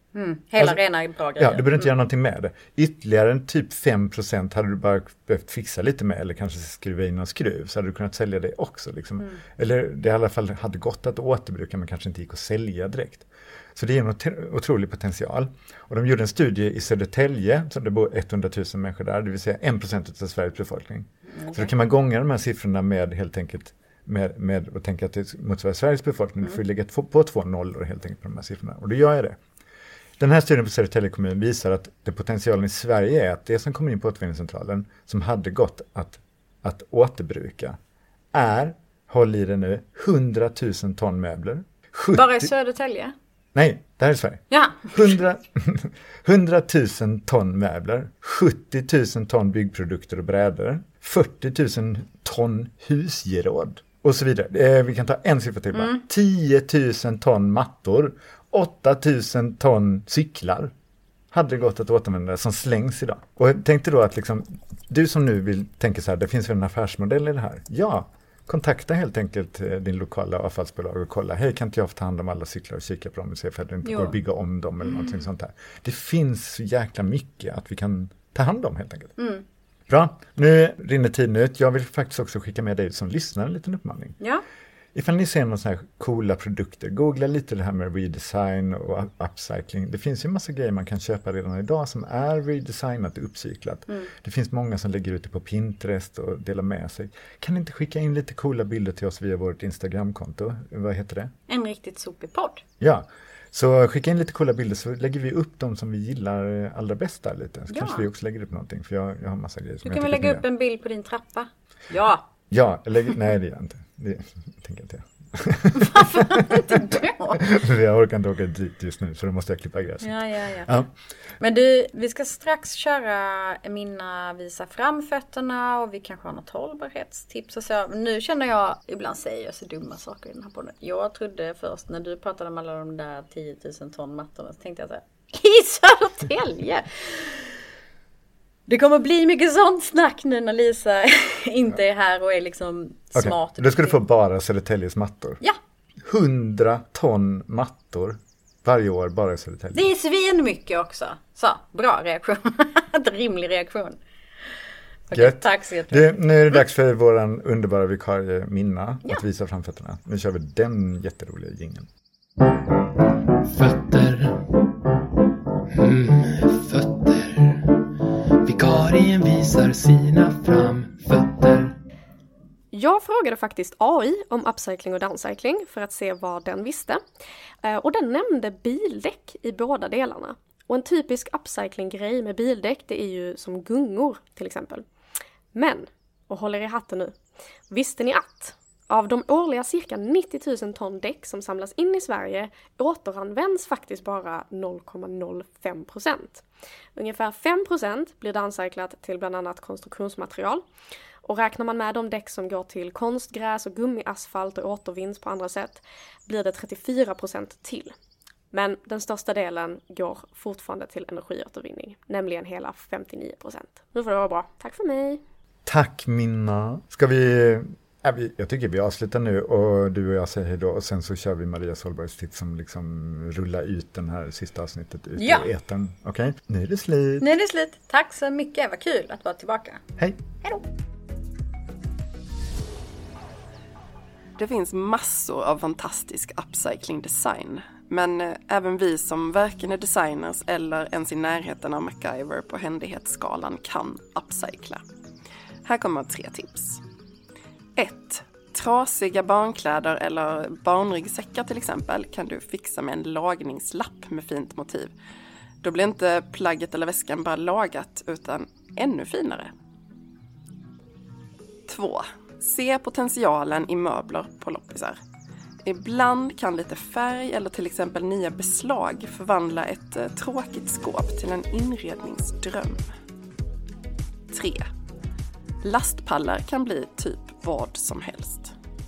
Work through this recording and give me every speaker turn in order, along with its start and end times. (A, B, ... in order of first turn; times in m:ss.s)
0:00.1-0:01.9 A
0:01.4-0:29.4 B
0:21.4-0:21.7 A
0:30.2-0:37.8 B
0:38.3-0:42.5 B
0:42.1-0:43.1 A
0:43.5-1:00.7 B
0:44.5-0:45.1 A
0:55.7-0:56.0 A
1:01.3-1:19.1 B
1:13.8-1:14.2 A
1:14.8-1:15.1 A
1:19.2-1:19.4 A
1:19.9-1:24.2 B
1:24.9-1:41.3 B
1:41.5-1:42.6 A
1:42.8-1:50.4 B
1:47.7-1:48.0 A
1:49.8-1:52.2 A
1:52.5-2:00.9 B
1:55.7-1:57.4 A
2:00.0-2:00.7 A
2:01.4-2:17.5 A
2:18.7-2:24.0 A
2:23.1-2:25.4 B
2:26.0-2:29.9 B
2:29.7-2:34.0 A
2:35.1-2:36.1 A
2:35.1-2:41.9 B
2:43.4-2:44.6 C
2:45.8-2:47.9 C
2:48.4-2:51.7 C
2:52.7-2:57.0 D
2:57.6-3:04.9 D
3:05.5-3:20.6 D
3:21.2-3:27.9 D
3:28.5-3:35.2 D
3:35.6-3:47.3 B
3:45.2-3:45.5 A
3:47.2-3:49.8 A
3:54.4-4:04.8 E
4:05.6-4:06.8 E
4:07.8-4:14.9 E
4:15.6-4:19.5 E
4:21.6-4:25.0 E
4:25.6-4:32.9 E
4:34.3-4:34.7 E
4:35.6-4:38.5 E